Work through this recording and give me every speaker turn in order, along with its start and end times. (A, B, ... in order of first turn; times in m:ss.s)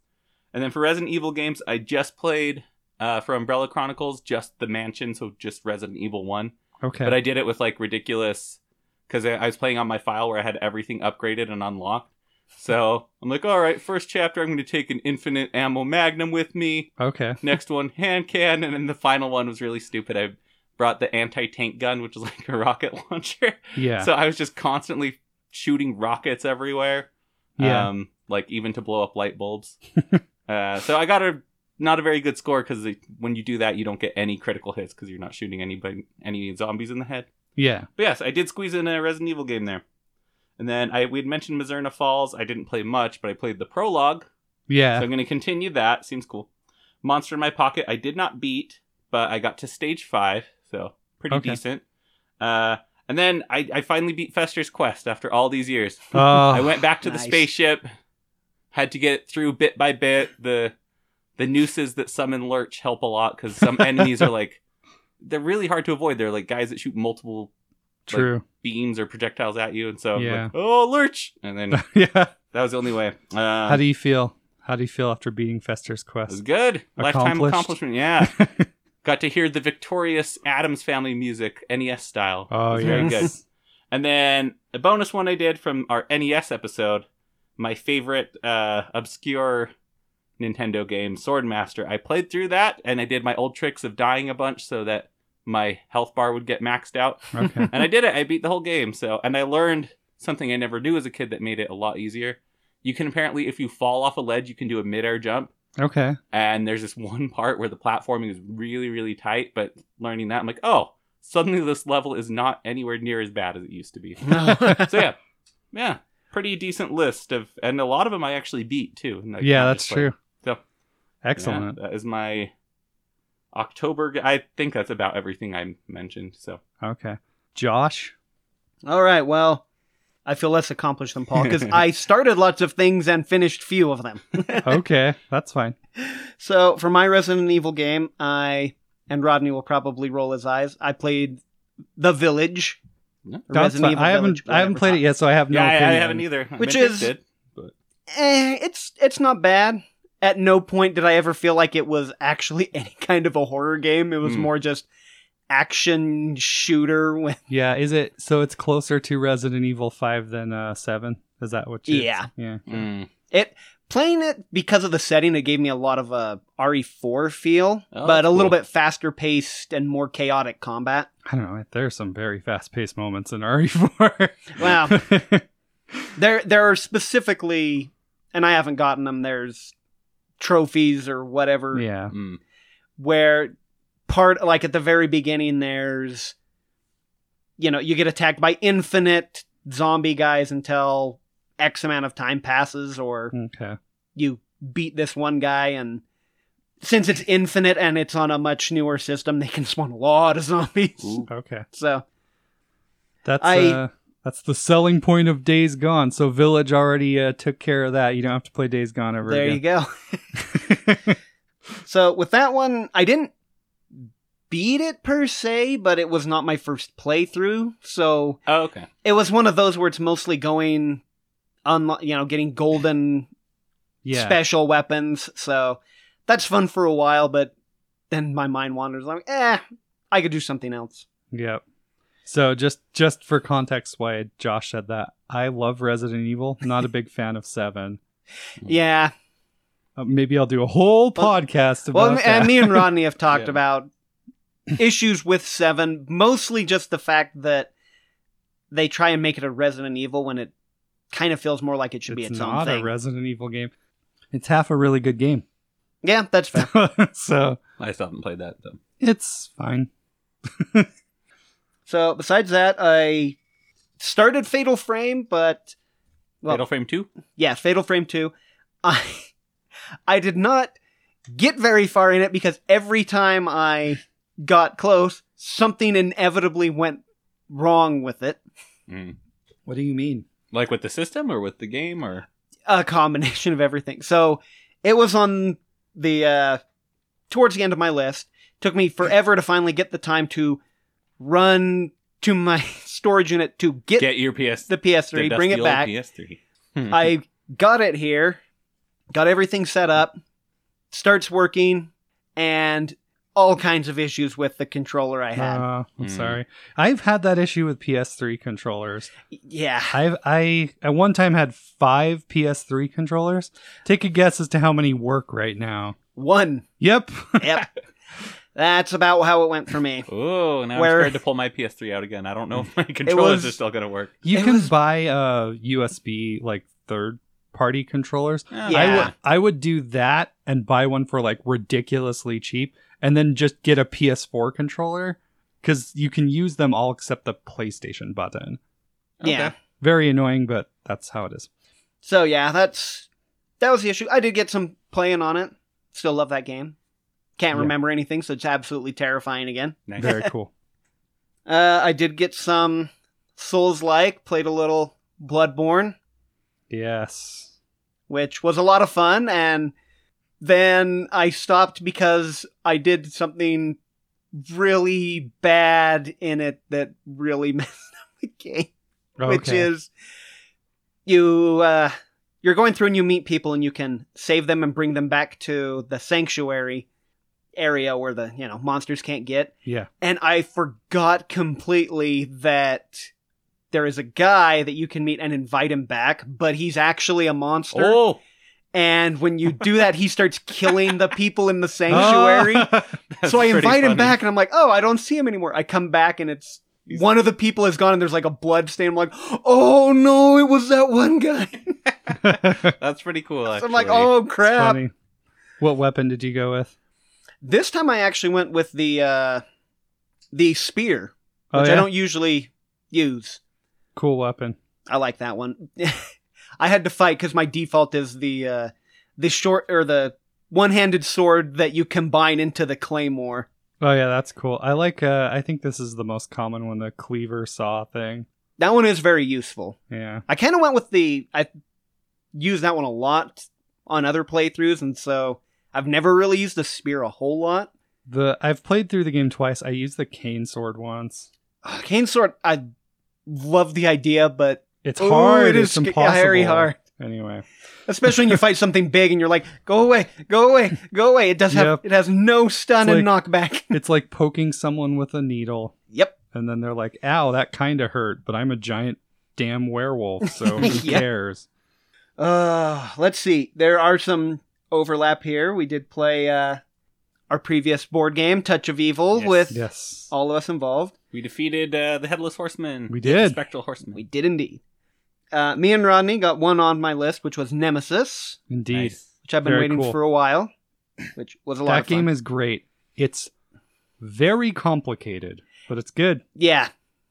0:00.5-0:29.8 A
0:06.8-0:07.2 B
0:17.0-0:17.4 B
0:23.8-0:24.1 B
0:27.6-0:27.9 B
0:30.5-0:37.3 A
0:37.6-0:37.9 B
0:38.0-0:39.8 A
0:40.6-0:44.3 A
0:44.7-0:45.1 B
0:45.0-0:46.5 A
0:47.0-0:51.8 A
0:51.3-0:51.6 B
0:52.4-0:57.8 A
0:56.1-0:56.8 B
0:57.0-0:57.4 C
0:58.7-1:00.7 A
1:01.4-1:04.6 A
1:03.7-1:04.3 B
1:05.2-1:07.5 A
1:08.1-1:08.4 B
1:08.1-1:11.8 A
1:10.1-1:10.5 B
1:11.7-1:12.3 B
1:12.4-1:13.8 A
1:13.7-1:16.4 B
1:16.3-1:18.4 A
1:17.0-1:18.7 B
1:19.0-1:23.3 A
1:22.5-1:23.4 B
1:23.9-1:27.0 A
1:27.6-1:29.7 A
1:30.4-1:45.5 A
1:37.3-1:37.7 B
1:45.8-1:46.2 B
1:46.3-1:55.2 A
1:54.2-1:55.0 C
1:54.4-1:54.9 B
1:55.7-2:00.6 A
1:59.4-2:00.2 B
2:01.2-2:01.8 B
2:01.4-2:02.5 A
2:03.5-2:06.6 A
2:06.8-2:08.1 B
2:08.8-2:09.6 C
2:10.2-2:14.7 C
2:11.4-2:11.8 A
2:14.6-2:15.7 B
2:16.0-2:21.4 C
2:22.0-2:22.8 C
2:23.5-2:25.0 C
2:23.5-2:26.2 B
2:25.5-2:27.7 A
2:26.6-2:27.1 C
2:28.1-2:34.8 C
2:34.2-2:34.5 A
2:35.5-2:37.4 C
2:37.5-2:42.6 B
2:41.9-2:42.3 C
2:42.7-2:43.1 A
2:43.3-2:51.1 C
2:47.9-2:48.6 A
2:51.3-2:55.4 B
2:54.6-2:55.0 C
2:56.2-2:59.7 C
3:00.4-3:01.8 C
3:01.7-3:02.1 B
3:02.1-3:02.4 A
3:03.0-3:03.5 C
3:04.1-3:06.3 C
3:07.6-3:13.3 C
3:13.3-3:13.8 B
3:14.2-3:16.0 C
3:16.8-3:22.0 C
3:21.3-3:21.7 B
3:23.2-3:29.6 B
3:23.4-3:23.8 C
3:29.2-3:29.9 C
3:30.4-3:31.2 B
3:31.8-3:33.3 C
3:34.5-3:38.4 C
3:38.5-3:38.9 A
3:39.0-3:41.0 C
3:41.6-3:43.3 C
3:44.0-3:44.4 B
3:44.1-3:47.5 C
3:48.1-3:51.0 C
3:51.3-3:51.6 B
3:52.2-3:58.0 B
3:58.6-3:59.1 C
4:00.0-4:02.9 B
4:01.9-4:03.9 C
4:03.3-4:03.6 A
4:04.8-4:07.7 C
4:08.7-4:10.5 C
4:11.1-4:12.9 C
4:12.1-4:13.7 B
4:14.3-4:15.4 B
4:16.0-4:16.7 C
4:16.5-4:17.6 B
4:17.8-4:18.8 A
4:19.0-4:19.9 B
4:20.6-4:20.9 B
4:21.9-4:23.4 C
4:24.0-4:25.7 C
4:26.5-4:27.1 A
4:27.4-4:28.3 C
4:28.8-4:29.3 C
4:30.1-4:30.7 C
4:31.3-4:38.4 C
4:38.9-4:39.2 A
4:39.6-4:40.3 B
4:40.5-4:42.2 A
4:42.7-4:46.6 C
4:47.3-4:50.6 C
4:51.2-4:54.1 C
4:54.0-4:57.1 A
4:54.7-4:55.9 C
4:56.9-4:58.4 C
4:59.1-5:00.1 C
5:00.9-5:05.6 C
5:05.4-5:09.1 B
5:06.0-5:06.4 A
5:09.4-5:10.0 C
5:09.9-5:16.0 B
5:16.2-5:16.6 C
5:16.8-5:17.5 B
5:17.4-5:17.7 C
5:18.5-5:20.1 C
5:20.1-5:24.1 A
5:20.7-5:21.1 C
5:23.1-5:23.5 C
5:24.2-5:38.6 B
5:24.3-5:24.7 C
5:28.5-5:29.1 A
5:28.7-5:29.1 C
5:39.2-5:39.5 A
5:39.2-5:39.5 C
5:39.8-5:41.5 B
5:42.0-5:43.1 C
5:43.6-5:46.7 C
5:47.4-5:50.2 C
5:49.9-5:50.1 A
5:50.0-5:50.5 B
5:51.5-5:56.0 C
5:56.7-5:57.5 B
5:58.1-5:59.7 C
6:00.4-6:03.8 C
6:04.3-6:08.7 C
6:09.2-6:09.7 B
6:09.2-6:09.9 C
6:11.0-6:16.8 C
6:17.6-6:23.1 C
6:23.7-6:28.0 C
6:27.7-6:28.2 A
6:28.7-6:41.8 C
6:31.9-6:32.9 B
6:33.2-6:34.2 A
6:42.2-6:42.7 B
6:42.4-6:44.1 A
6:43.5-6:44.8 C
6:44.4-6:44.9 B
6:45.6-6:46.7 B
6:47.4-6:49.4 C
6:50.3-6:53.4 C
6:51.5-6:51.9 B
6:54.0-6:54.6 B
6:54.9-6:56.1 C
6:56.6-7:03.5 C
7:03.8-7:08.2 B
7:08.6-7:11.5 C
7:09.9-7:10.2 B
7:12.3-7:17.7 C
7:18.1-7:21.3 B
7:21.6-7:22.6 C
7:23.3-7:26.8 C
7:24.8-7:27.4 B
7:27.9-7:33.8 C
7:31.5-7:31.8 B
7:32.8-7:33.1 B
7:33.7-7:35.7 B
7:36.3-7:41.4 B
7:40.6-7:41.0 C
7:42.2-7:46.6 C
7:47.3-7:50.9 C
7:49.1-7:49.5 A
7:49.5-7:50.1 B
7:51.1-7:54.0 A
7:52.9-7:53.4 B
7:53.9-7:54.6 C
7:55.3-7:58.4 C
7:58.5-8:00.0 B
7:58.7-7:59.1 A
7:59.2-8:00.5 C
8:01.1-8:02.1 C
8:01.6-8:03.3 B
8:04.0-8:06.2 B
8:06.4-8:06.7 C